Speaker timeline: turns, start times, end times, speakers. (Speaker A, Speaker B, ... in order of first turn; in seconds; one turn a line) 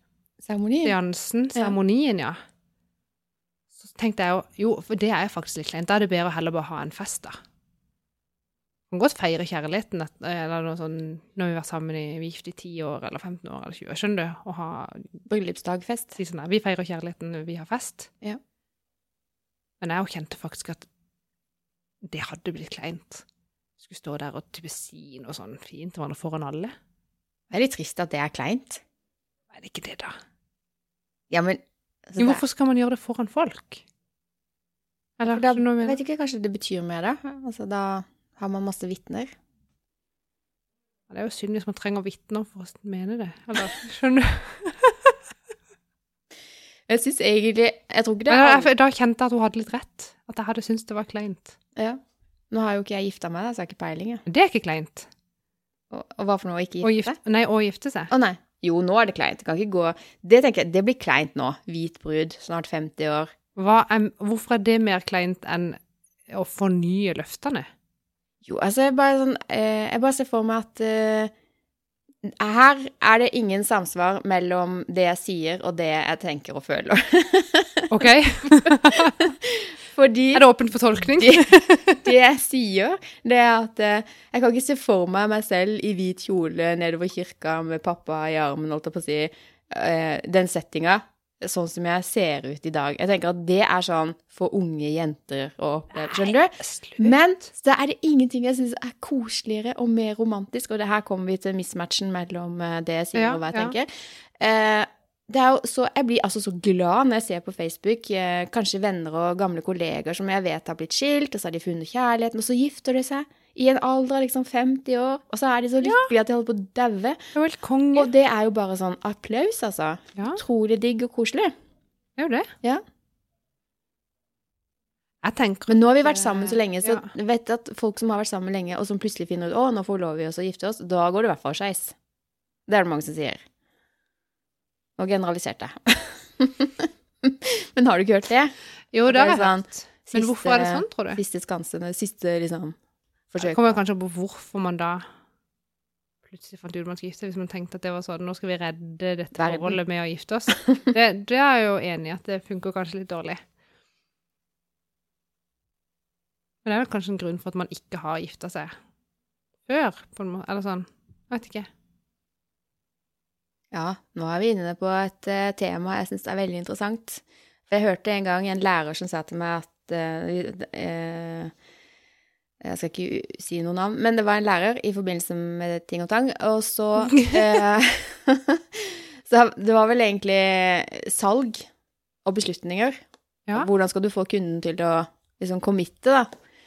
Speaker A: 0.4-1.0
Speaker B: 0.8-2.4
Speaker B: 3.8-7.4
Speaker B: 8.9-15.2
Speaker A: 15.3-16.2
Speaker B: 16.2-18.1
Speaker B: 19.8-20.9
Speaker B: 22.0-23.2
Speaker B: 23.8-26.8
Speaker A: 27.5-28.8
Speaker B: 29.5-30.2
Speaker A: 31.3-32.4
Speaker B: 32.2-33.8
Speaker B: 35.2-36.0
Speaker A: 35.3-39.3
Speaker B: 41.1-45.2
Speaker A: 46.9-48.7
Speaker B: 48.3-51.6
Speaker A: 51.8-54.2
Speaker B: 54.3-55.1
Speaker A: 55.9-57.2
Speaker B: 56.8-58.1
Speaker A: 58.1-63.3
Speaker B: 63.6-67.7
Speaker A: 68.5-71.3
Speaker A: 72.2-80.5
Speaker B: 77.9-79.3
Speaker B: 80.3-82.1
Speaker A: 81.2-117.3
Speaker B: 96.0-97.2
Speaker B: 103.2-103.8
Speaker B: 115.8-116.1
Speaker B: 117.3-118.1
Speaker A: 118.0-121.5
Speaker B: 120.2-120.4
Speaker B: 122.2-122.5
Speaker B: 125.2-127.1
Speaker A: 125.7-131.9
Speaker A: 132.7-133.4
Speaker A: 135.0-138.5
Speaker B: 138.9-141.2
Speaker A: 139.1-142.8
Speaker A: 143.3-143.8
Speaker B: 143.4-145.1
Speaker B: 146.2-153.4
Speaker A: 149.4-149.8
Speaker B: 156.7-158.8
Speaker B: 159.7-161.7
Speaker A: 163.7-171.5
Speaker A: 172.6-181.7
Speaker B: 177.0-177.6
Speaker A: 182.2-183.0
Speaker A: 183.5-186.3